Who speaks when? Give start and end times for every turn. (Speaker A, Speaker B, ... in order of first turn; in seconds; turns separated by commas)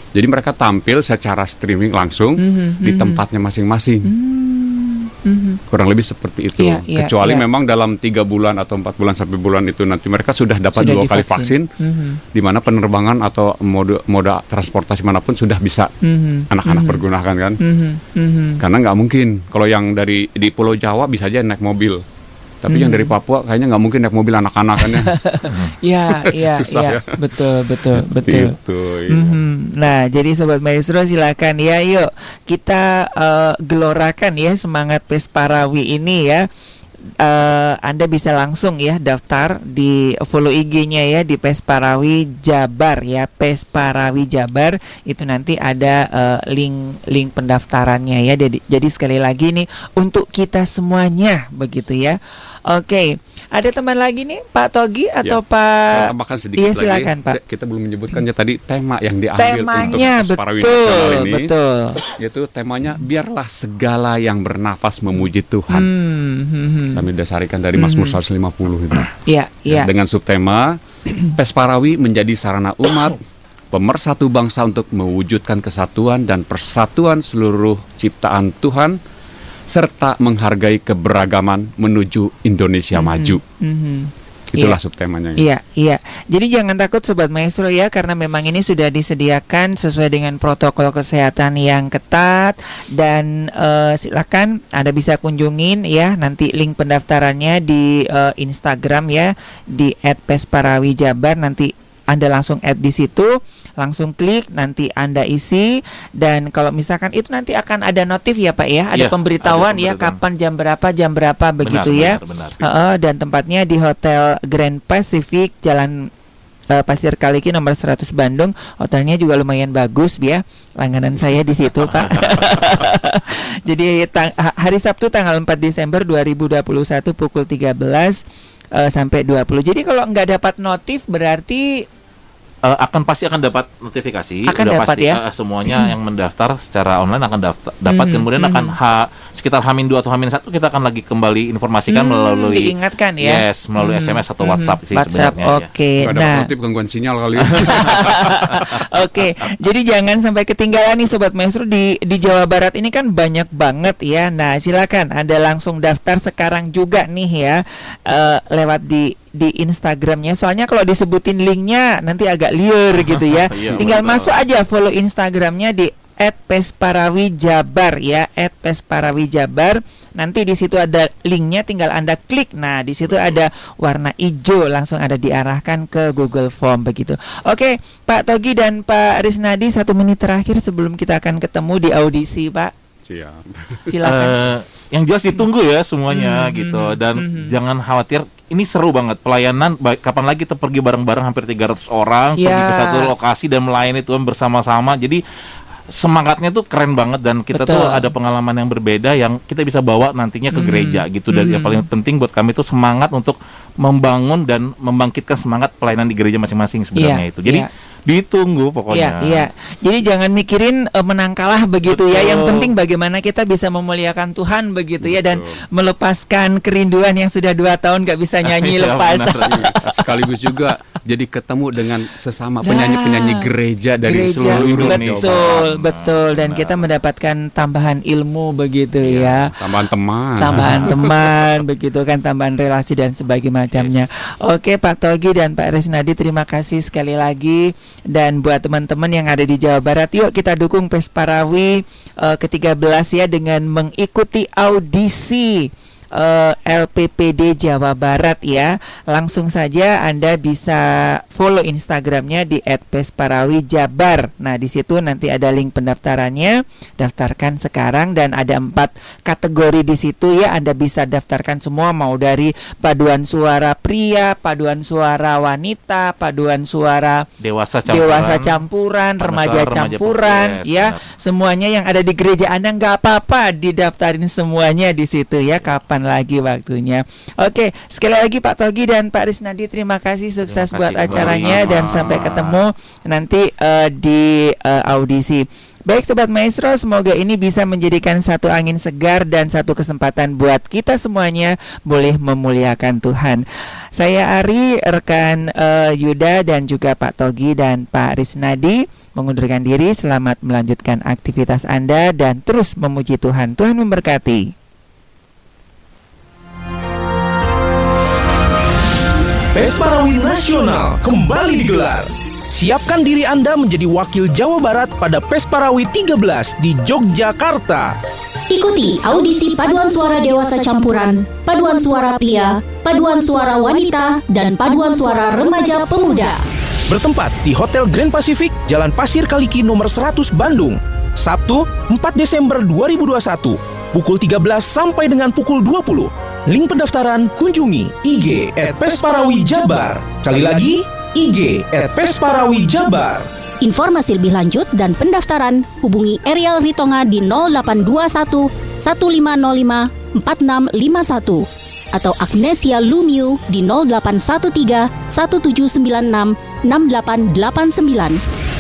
Speaker A: 0.1-4.1, Speaker B: 2.4-3.2, Speaker B: 4.0-5.6, Speaker A: 5.7-11.7, Speaker B: 6.6-7.5, Speaker B: 10.8-12.2, Speaker A: 12.3-15.9, Speaker B: 16.0-17.0, Speaker A: 16.5-17.6, Speaker B: 17.6-18.6, Speaker A: 18.6-22.0, Speaker A: 22.6-25.2, Speaker B: 22.7-23.1, Speaker B: 24.8-28.6, Speaker C: 25.5-25.8, Speaker A: 26.1-29.4, Speaker B: 29.1-36.5, Speaker B: 37.2-57.4, Speaker A: 55.2-61.5, Speaker B: 59.4-62.0, Speaker A: 62.0-65.9, Speaker B: 65.7-67.0, Speaker A: 66.9-69.2, Speaker B: 67.8-68.2, Speaker B: 69.3-69.9, Speaker A: 69.7-70.8, Speaker A: 71.3-73.2, Speaker A: 73.7-79.0, Speaker A: 79.7-83.4, Speaker B: 83.0-84.8, Speaker A: 84.5-85.4, Speaker B: 85.4-116.1, Speaker C: 108.9-110.2, Speaker C: 111.7-112.6, Speaker B: 116.7-128.2, Speaker C: 121.8-122.9, Speaker B: 128.8-131.8, Speaker C: 132.7-145.7, Speaker B: 134.5-135.9, Speaker B: 137.9-138.7, Speaker B: 141.9-146.5, Speaker A: 146.0-148.7, Speaker C: 147.4-147.7, Speaker B: 147.6-182.7, Speaker C: 163.3-164.4, Speaker C: 173.1-173.4, Speaker A: 183.1-183.9, Speaker B: 183.9-184.4, Speaker C: 184.0-195.2, Speaker B: 186.1-187.5, Speaker B: 192.4-193.1, Speaker C: 195.9-209.5, Speaker B: 197.5-198.1, Speaker B: 200.5-201.9, Speaker B: 207.0-207.7, Speaker B: 208.9-219.8, Speaker C: 211.9-212.7, Speaker A: 215.0-215.6, Speaker C: 218.4-219.9, Speaker A: 219.7-225.6, Speaker B: 222.6-223.5, Speaker B: 224.0-229.5, Speaker C: 224.3-226.9, Speaker C: 229.0-229.4, Speaker A: 229.6-231.4, Speaker B: 230.4-267.2, Speaker C: 233.7-234.1, Speaker C: 267.4-268.6, Speaker B: 267.9-304.5, Speaker C: 269.2-271.1, Speaker C: 280.5-282.6, Speaker A: 281.1-282.4, Speaker D: 309.6-318.0, Speaker E: 318.5-326.4, Speaker D: 326.9-343.3, Speaker E: 343.6-358.2